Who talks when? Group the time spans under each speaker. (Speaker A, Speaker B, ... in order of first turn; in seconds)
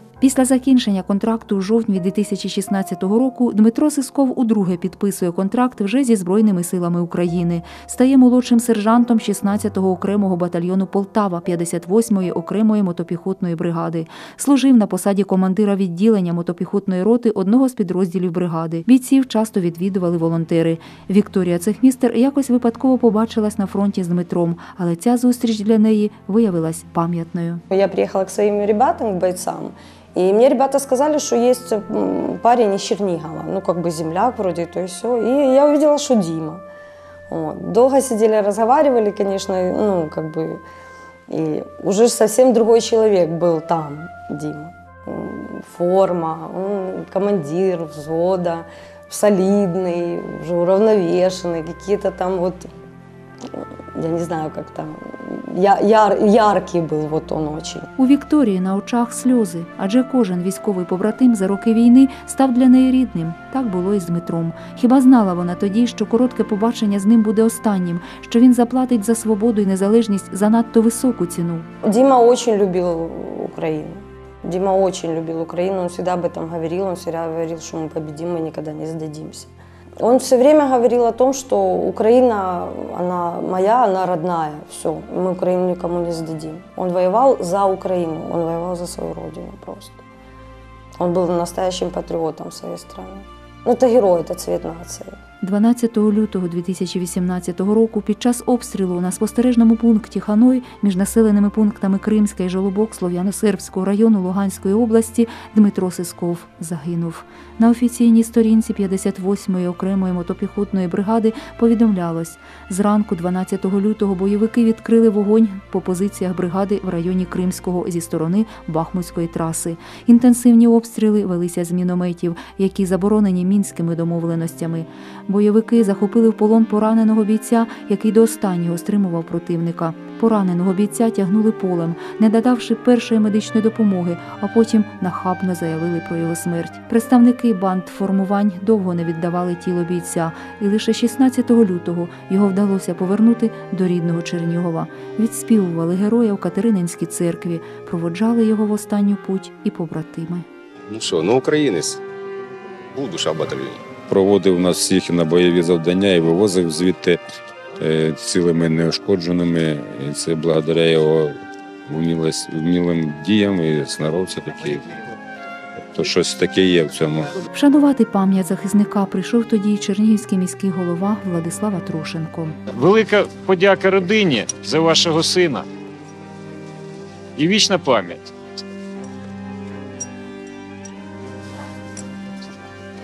Speaker A: 0.2-27.6, 58.0-71.7, 95.4-150.5, 167.5-172.6
Speaker B: 27.7-36.6, 37.3-40.6, 41.3-52.7, 53.5-57.9, 71.8-79.5, 80.0-90.0, 91.0-95.2
Speaker C: 150.9-152.0, 152.9-153.8
Speaker D: 154.1-157.2, 157.8-161.3, 161.9-164.8, 165.9-167.3
Speaker E: 172.7-175.7, 177.4-178.3